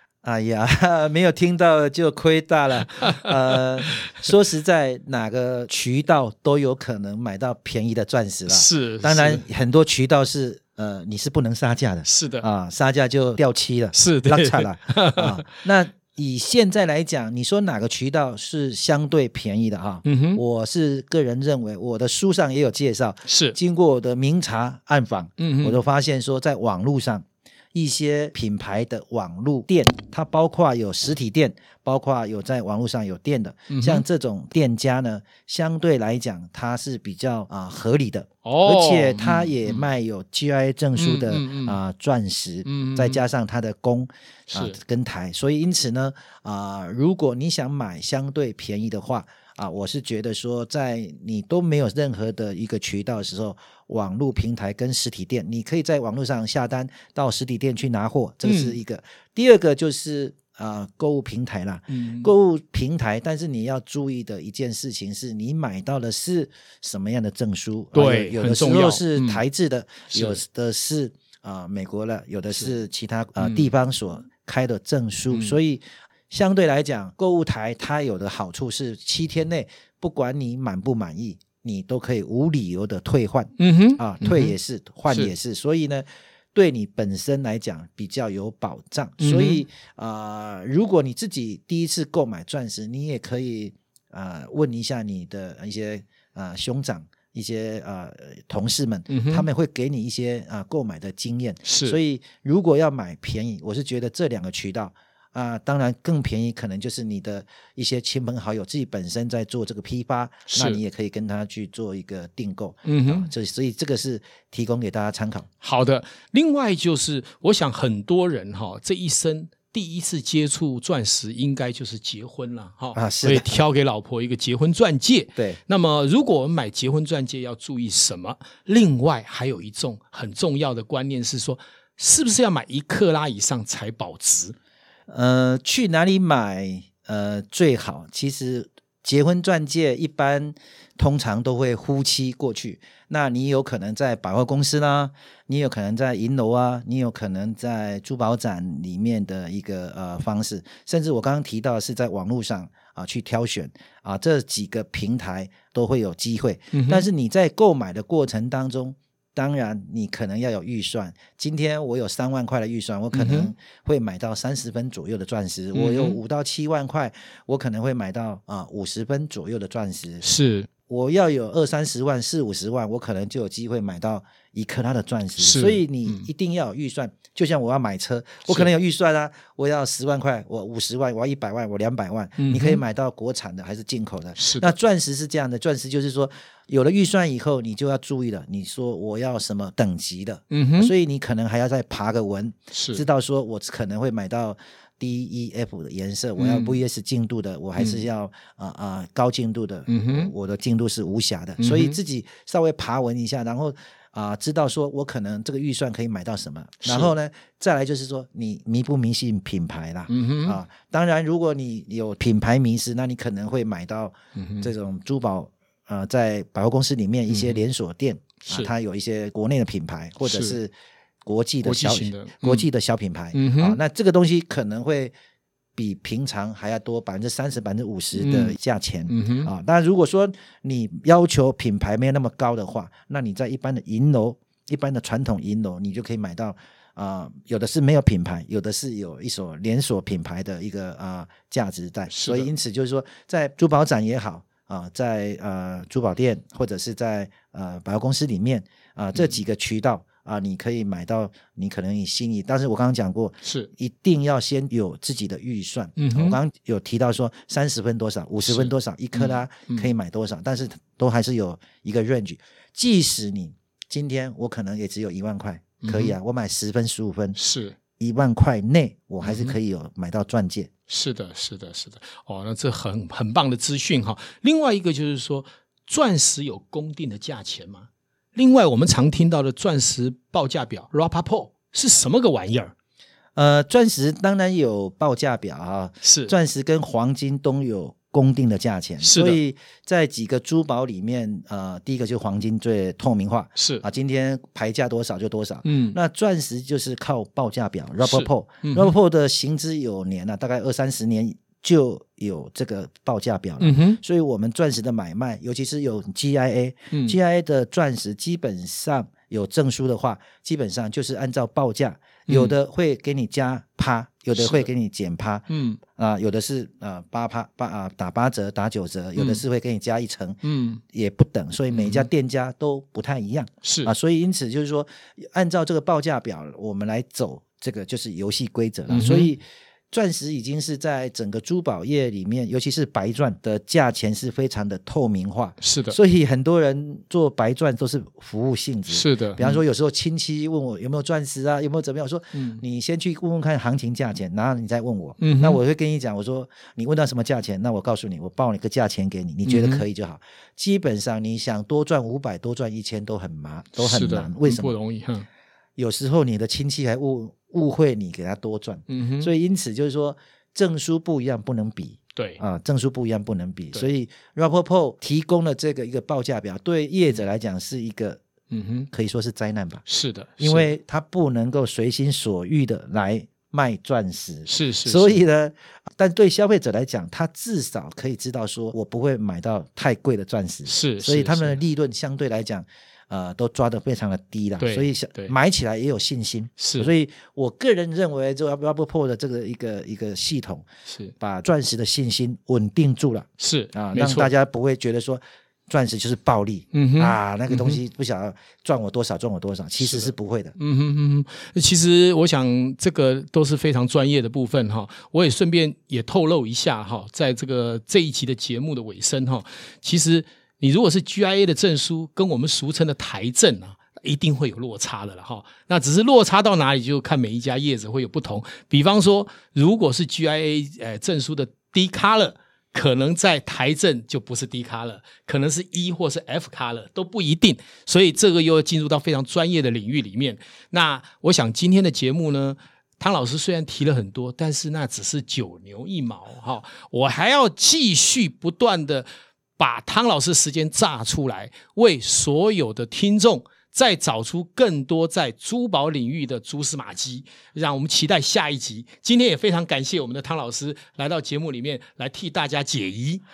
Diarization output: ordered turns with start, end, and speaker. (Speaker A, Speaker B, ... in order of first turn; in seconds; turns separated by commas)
Speaker A: 0.2-115.5, Speaker B: 3.0-4.2, Speaker B: 8.5-9.4, Speaker B: 12.0-12.4, Speaker B: 13.9-15.5, Speaker B: 20.0-20.4, Speaker B: 23.2-23.6, Speaker B: 25.4-25.8, Speaker B: 33.7-34.0, Speaker B: 38.4-39.9, Speaker B: 40.9-41.8, Speaker B: 42.6-43.2, Speaker B: 44.5-44.8, Speaker B: 58.4-58.8, Speaker B: 61.9-62.3, Speaker B: 67.9-69.4, Speaker B: 70.1-70.4, Speaker B: 73.4-73.7, Speaker B: 75.3-75.6, Speaker B: 83.6-84.6, Speaker B: 89.2-89.6, Speaker B: 99.1-99.5, Speaker B: 101.6-102.0, Speaker B: 110.5-110.8, Speaker B: 112.8-113.3, Speaker B: 115.6-134.5, Speaker A: 122.9-123.5, Speaker A: 135.1-170.2, Speaker B: 156.7-157.1, Speaker B: 163.1-163.5, Speaker B: 165.7-166.2, Speaker B: 170.2-170.7, Speaker A: 170.9-220.7, Speaker B: 175.4-176.3, Speaker B: 178.4-178.7, Speaker B: 182.4-182.8, Speaker B: 184.4-184.7, Speaker B: 190.5-190.9, Speaker B: 192.7-193.0, Speaker B: 196.4-196.8, Speaker B: 197.8-198.0, Speaker B: 199.9-200.3, Speaker B: 201.6-202.0, Speaker B: 206.8-207.1, Speaker B: 210.1-210.6, Speaker B: 214.3-214.7, Speaker B: 217.3-217.6, Speaker B: 218.4-218.7, Speaker B: 220.2-220.6, Speaker A: 221.2-225.1, Speaker B: 221.6-222.7, Speaker B: 223.3-223.8, Speaker A: 225.8-267.4, Speaker B: 228.1-228.6, Speaker B: 229.1-229.5, Speaker B: 242.1-242.5, Speaker B: 253.4-253.7, Speaker B: 256.0-256.4, Speaker B: 258.5-259.9, Speaker B: 265.8-266.1, Speaker B: 267.4-267.8, Speaker A: 268.0-270.7, Speaker B: 269.2-269.6, Speaker B: 270.9-282.7, Speaker A: 283.4-320.4, Speaker B: 286.0-286.3, Speaker B: 289.0-289.4, Speaker B: 293.5-293.8, Speaker B: 295.6-296.0, Speaker B: 298.0-298.9, Speaker B: 303.6-304.0, Speaker B: 306.9-307.1, Speaker B: 312.3-312.5, Speaker B: 314.4-314.7, Speaker B: 315.5-315.8, Speaker B: 319.1-319.4, Speaker B: 320.4-320.8, Speaker A: 320.9-354.8, Speaker B: 321.7-322.1, Speaker B: 323.6-323.9, Speaker B: 328.9-329.3, Speaker B: 335.6-336.0, Speaker B: 338.9-339.6, Speaker B: 342.3-342.6, Speaker B: 345.2-345.6, Speaker B: 349.4-349.8, Speaker B: 353.8-355.2, Speaker A: 355.8-368.2, Speaker B: 358.9-359.3, Speaker B: 368.5-368.9, Speaker A: 368.9-369.8, Speaker B: 369.9-370.7, Speaker A: 370.4-390.6, Speaker B: 374.5-375.2, Speaker B: 380.6-381.6, Speaker B: 384.6-385.3, Speaker B: 386.6-386.9, Speaker B: 390.9-391.1, Speaker A: 391.2-400.5, Speaker B: 393.4-394.3, Speaker B: 396.7-397.8, Speaker B: 399.8-439.1, Speaker B: 439.6-453.2